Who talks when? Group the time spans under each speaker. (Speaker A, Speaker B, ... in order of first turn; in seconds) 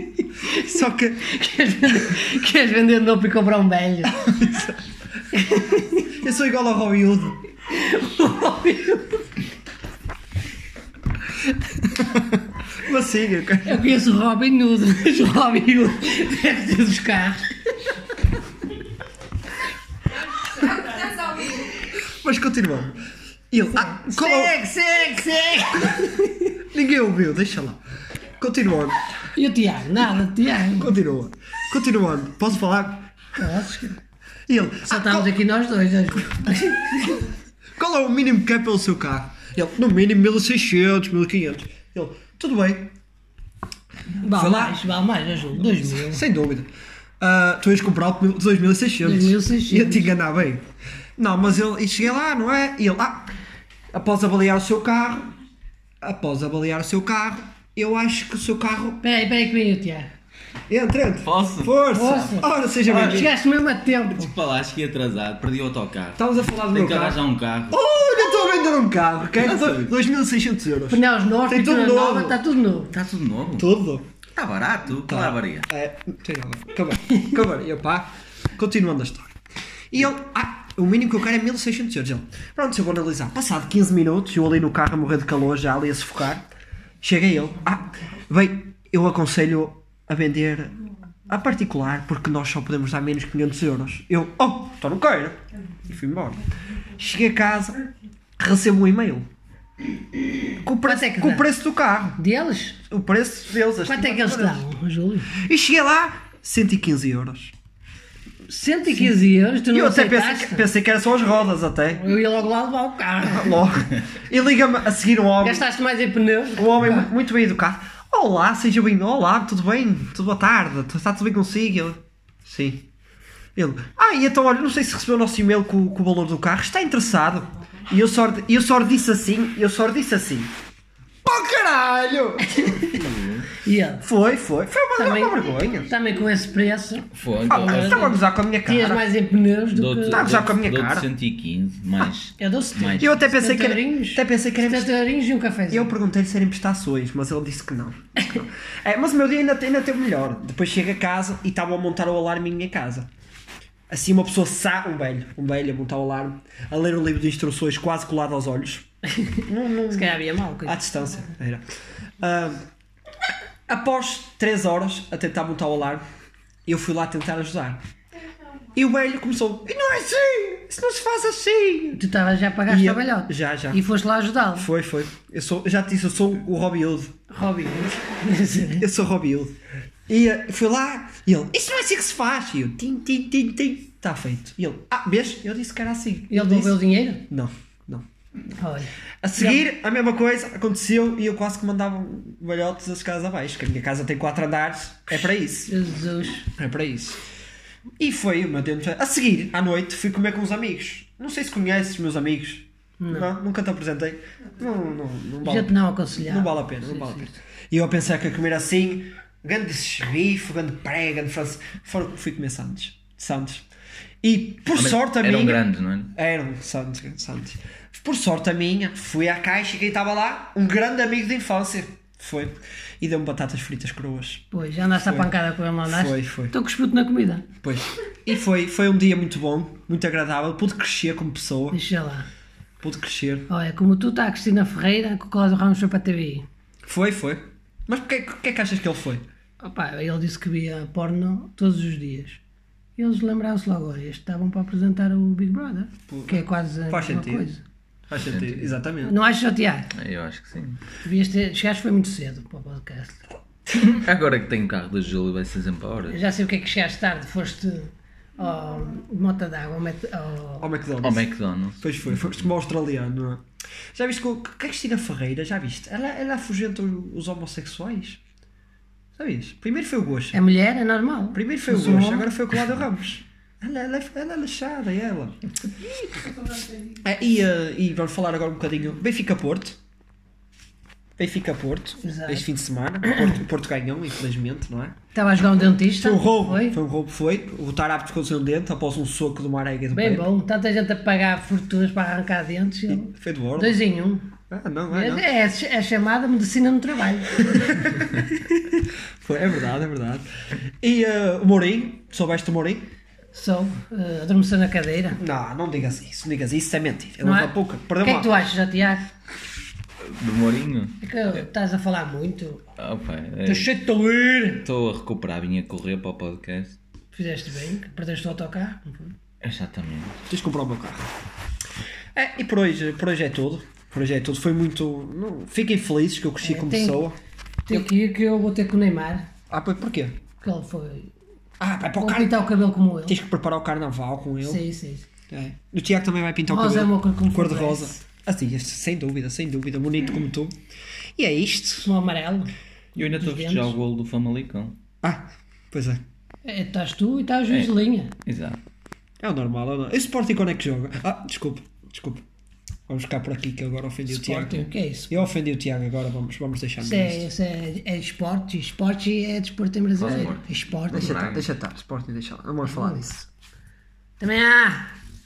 Speaker A: 0.5-1.4, 4.1-4.8, 6.0-7.4, 12.7-13.8, 21.6-23.0, 23.5-24.8, 25.7-27.8, 28.4-29.1, 30.7-33.1, 34.5-35.3, 37.8-42.9, 44.3-44.8, 45.9-46.7, 47.2-50.6, 51.2-53.3, 53.9-55.3, 56.0-59.0, 60.7-63.3, 66.2-67.2, 67.7-72.4, 73.5-74.1, 75.1-79.3, 79.9-86.5, 87.0-90.8, 91.3-96.4, 97.0-97.8, 98.4-99.3, 100.5-102.2, 102.9-104.6, 105.3-107.5, 109.7-112.1, 113.2-115.6, 116.5-122.9, 123.5-130.5, 131.2-132.9, 134.0-135.9, 137.5-139.0, 140.1-141.1, 143.0-144.9, 145.7-153.1, 153.9-158.9, 159.5-161.6, 162.2-162.6, 163.7-166.0, 166.7-167.8, 168.7-172.0, 172.7-173.8, 174.6-177.1, 178.7-179.5, 180.1-188.1, 189.2-195.7, 196.5-197.2, 198.0-213.7, 214.2-215.6, 216.1-225.3, 225.9-226.5, 227.6-231.8, 232.8-233.5, 236.8-239.2, 246.1-247.5, 248.1-249.1, 260.6-261.2, 261.8-263.4, 263.9-268.2, 269.1-270.4, 271.3-275.4, 277.0-279.8, 281.2-284.9, 285.9-290.3, 292.9-293.8, 294.5-295.3, 297.4-300.2, 300.8-302.9, 305.1-308.4, 320.3-321.1, 322.1-327.2, 329.5-330.2, 331.6-332.4, 333.1-334.6, 335.3-340.6, 341.2-341.9, 345.0-346.0, 349.2-352.2, 352.9-357.3, 360.0-360.3, 360.9-363.2
Speaker B: 1.2-4.2, 5.3-6.1, 7.7-9.2, 13.6-17.7, 23.7-26.5, 29.3-30.9, 33.3-34.0, 34.9-37.3, 44.2-46.2, 49.0-50.1, 59.0-60.1, 61.9-64.3, 70.9-72.9, 100.8-101.5, 102.2-102.8, 103.8-105.3, 108.5-110.7, 112.0-113.7, 115.4-117.1, 132.4-133.0, 133.6-134.0, 135.0-140.4, 142.3-145.9, 159.2-160.9, 171.9-174.7, 177.3-178.9, 186.3-187.2, 188.6-189.6, 195.1-196.5, 203.0-203.3, 205.4-207.3, 224.5-227.4, 231.7-232.3, 233.5-236.4, 239.6-242.4, 243.0-247.6, 249.0-249.9, 251.0-253.2, 256.1-260.7, 270.3-272.3, 282.0-282.4, 285.1-286.8, 289.9-294.3, 294.9-297.4, 303.3-305.2, 307.2-309.1, 311.0-312.7, 313.4-314.7, 317.1-319.1, 326.4-327.0, 327.7-329.3, 330.4-331.1, 332.0-333.1, 334.4-335.1, 336.5-337.9, 341.8-343.7, 346.4-348.1, 354.1-355.3, 356.8-361.3, 362.6-363.1, 364.2-364.9
Speaker C: 61.2-63.3, 64.1-67.8, 69.4-69.9, 72.9-73.7, 74.3-75.7, 132.9-133.5, 137.1-138.1, 139.7-143.2, 214.7-216.1, 248.2-248.7, 249.9-250.8, 253.7-256.2, 261.0-262.4, 310.0-311.0, 312.8-313.7, 314.6-316.8, 319.4-320.1, 342.9-344.8, 348.2-348.6, 360.0-361.5